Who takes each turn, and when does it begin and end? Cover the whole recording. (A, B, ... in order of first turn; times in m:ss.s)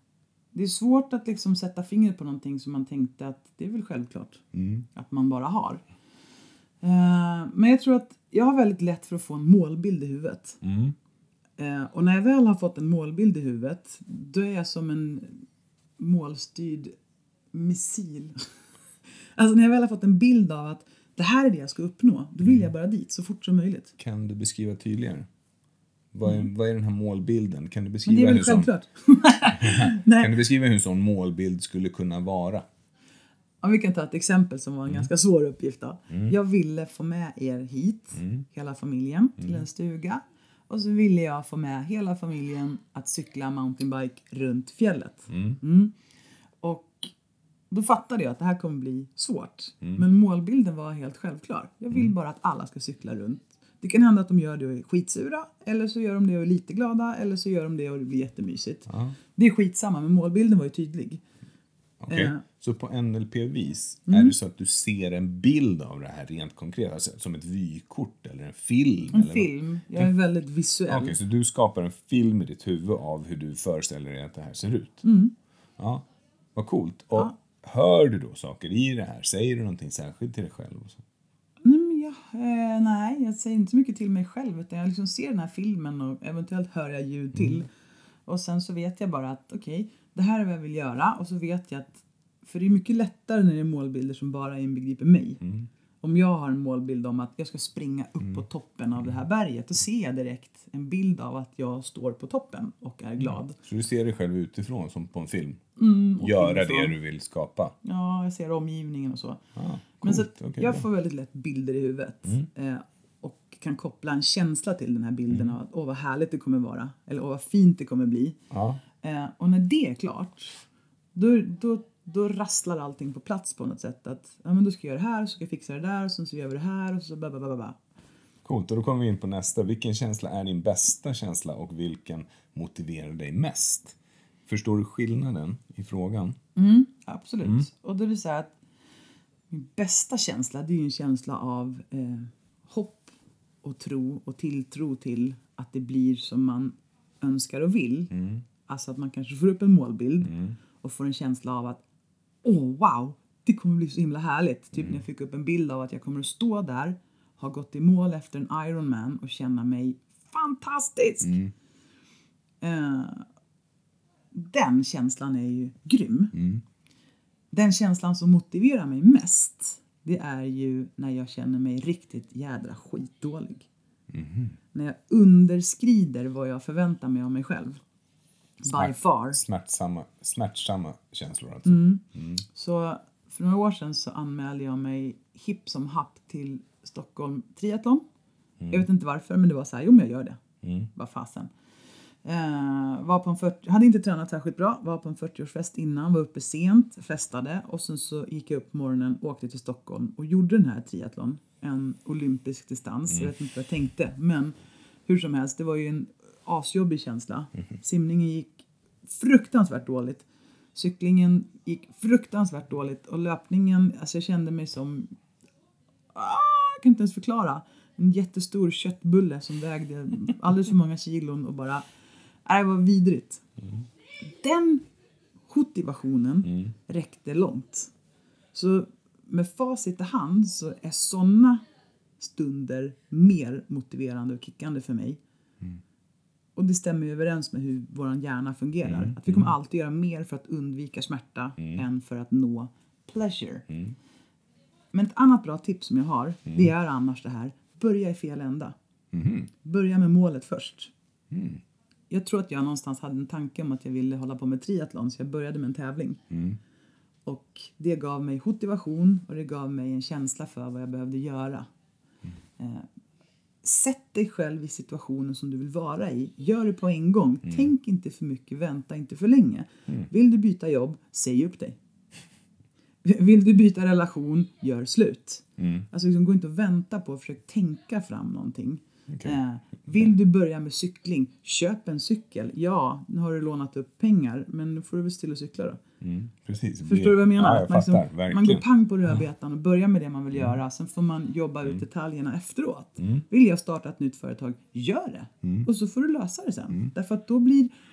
0:00.5-0:05.8 A
0:04.5-0:04.9 B
0:06.8-0:10.6 A
0:10.6-0:11.0 B
0:11.6-0:15.4 A
0:16.0-0:17.0 A
0:17.5-0:18.4 A
0:19.4-0:23.9 A
0:24.0-0:25.3 B
0:26.1-0:28.7 B
0:28.1-0:30.3 A
0:29.6-0:32.7 B
0:33.6-0:45.9 A
0:38.2-0:38.4 B
0:45.3-0:45.6 B
0:46.6-0:47.1 A
0:47.7-1:01.2 A
0:58.9-0:59.1 B
1:02.0-1:10.1 B
1:02.1-1:02.4 A
1:04.1-1:04.4 A
1:09.1-1:11.2 A
1:10.9-1:15.0 B
1:15.0-1:15.3 A
1:15.8-1:21.0 B
1:21.6-1:27.7 A
1:28.3-1:35.4 A
1:36.0-1:43.6 A
1:43.2-1:45.6 B
1:45.8-1:47.0 A
1:46.2-1:47.8 B
1:47.8-1:49.4 A
1:49.6-1:50.9 B
1:50.0-1:58.4 A
1:58.5-1:58.8 B
1:59.0-2:00.6 A
2:01.2-2:07.8 A
2:08.4-2:14.0 B
2:14.5-2:16.4 B
2:16.6-2:18.5 A
2:19.5-2:28.1 A
2:28.1-2:28.4 B
2:28.7-2:31.8 A
2:30.2-2:30.6 B
2:32.4-2:41.4 A
2:34.8-2:35.0 B
2:41.2-2:41.5 B
2:42.6-2:43.3 A
2:44.3-2:46.3 A
2:46.3-2:46.6 B
2:47.5-2:53.7 A
2:54.1-2:54.6 B
2:54.7-2:57.8 A
2:58.6-2:59.4 A
2:58.7-3:02.4 B
3:01.6-3:08.0 A
3:08.6-3:08.9 B
3:08.7-3:10.4 A
3:10.6-3:10.9 B
3:10.9-3:11.5 A
3:12.2-3:24.6 A
3:25.1-3:35.1 A
3:36.1-3:41.8 A
3:42.4-3:43.4 A
3:44.2-3:44.8 A
3:45.5-3:47.9 A
3:48.5-3:51.6 A
3:52.2-3:55.2 A
3:56.6-4:03.7 A
3:58.8-3:59.5 B
4:03.7-4:04.0 B
4:04.9-4:08.8 A
4:09.1-4:09.5 B
4:09.6-4:10.9 A
4:11.3-4:11.6 B
4:12.1-4:16.2 A
4:16.3-4:16.6 B
4:17.3-4:21.7 A
4:22.6-4:22.9 A
4:23.6-4:31.8 A
4:33.0-4:45.8 A
4:35.6-4:35.9 B
4:39.1-4:39.4 B
4:46.0-4:48.6 B
4:46.8-4:57.7 A
4:55.4-4:55.7 B